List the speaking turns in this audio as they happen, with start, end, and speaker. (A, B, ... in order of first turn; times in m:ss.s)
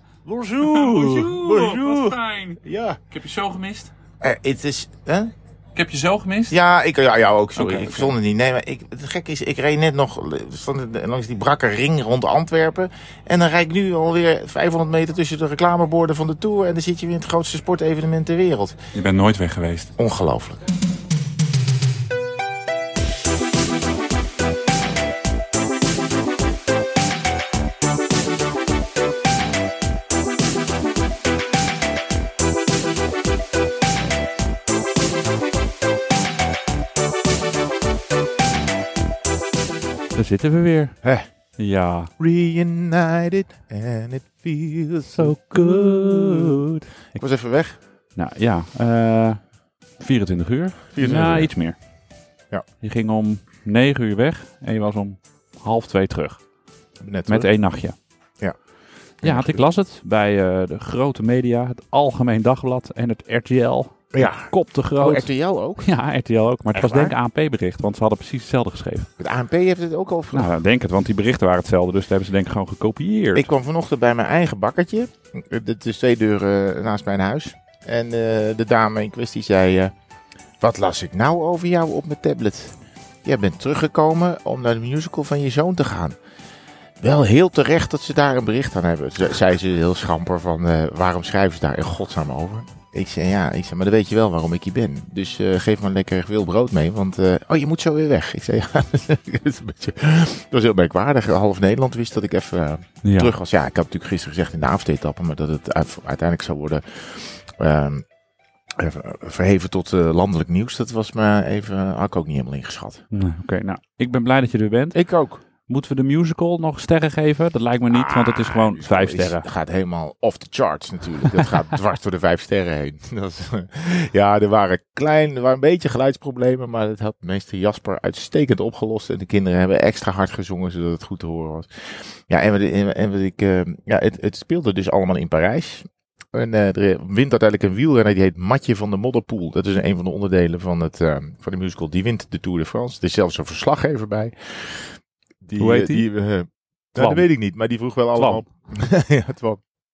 0:00.2-0:03.9 A
0:00.4-0:03.0 B
0:04.2-0:05.3 B
0:05.7-0:06.6 A
0:06.5-0:18.8 B
0:07.5-0:08.1 A
0:18.9-0:19.9 A
0:20.0-0:20.6 B
0:40.1-0:41.0 A
0:41.6-0:42.1 A
0:42.2-0:47.8 B
0:45.1-0:47.2 A
0:48.1-0:49.4 A
0:50.0-0:51.8 A
0:50.9-0:51.5 B
0:52.8-0:56.4 A
0:57.0-0:57.5 B
0:57.3-0:57.9 A
0:59.2-1:09.1 A
0:59.2-0:59.6 B
1:04.1-1:05.9 B
1:06.7-1:07.1 B
1:09.2-1:10.6 B
1:10.3-1:13.5 A
1:13.3-1:19.9 B
1:20.6-1:26.2 B
1:27.0-1:48.0 B
1:43.0-1:43.3 A
1:48.8-1:53.1 B
1:53.1-1:55.0 A
1:54.9-1:55.4 B
1:55.6-1:59.5 A
1:57.9-2:29.6 B
2:25.6-2:26.0 A
2:26.9-2:27.2 A
2:28.1-2:28.4 A